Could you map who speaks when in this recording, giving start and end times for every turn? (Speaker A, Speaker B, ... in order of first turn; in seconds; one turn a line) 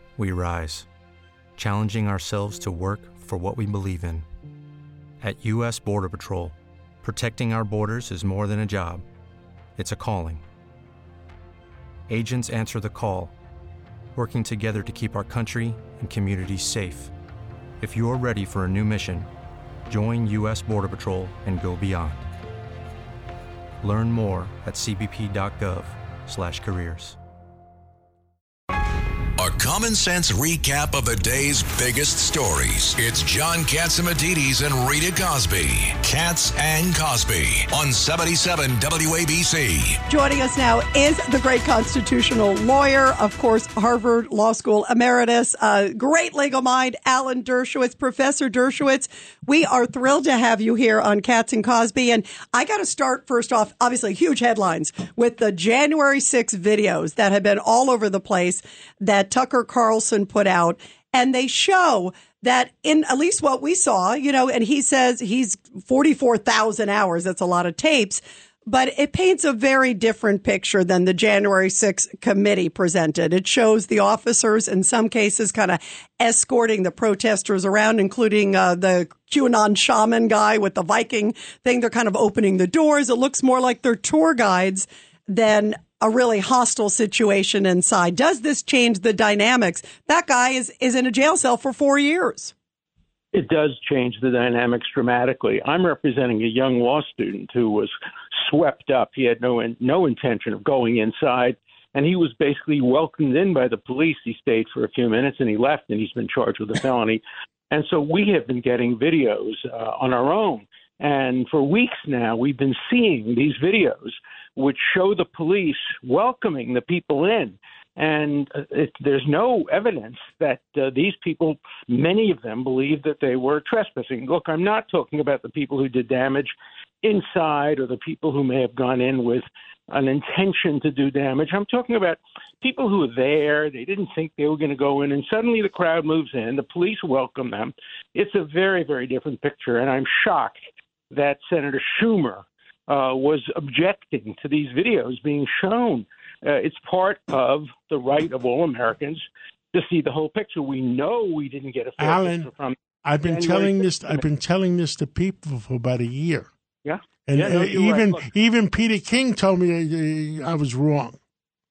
Speaker A: 0.2-0.9
Speaker A: 1.6-4.2
Speaker A: 5.2-9.0
Speaker A: 9.8-10.4
Speaker A: 12.1-13.3
Speaker A: 14.2-17.1
Speaker A: 17.8-19.3
Speaker A: 19.9-22.2
Speaker A: 23.8-27.2
Speaker B: 29.4-40.0
Speaker C: 40.1-92.5
Speaker D: 93.3-140.6
Speaker D: 141.1-154.2
Speaker E: 152.0-152.5
Speaker E: 153.0-156.5
Speaker D: 156.8-158.2
Speaker E: 157.3-161.2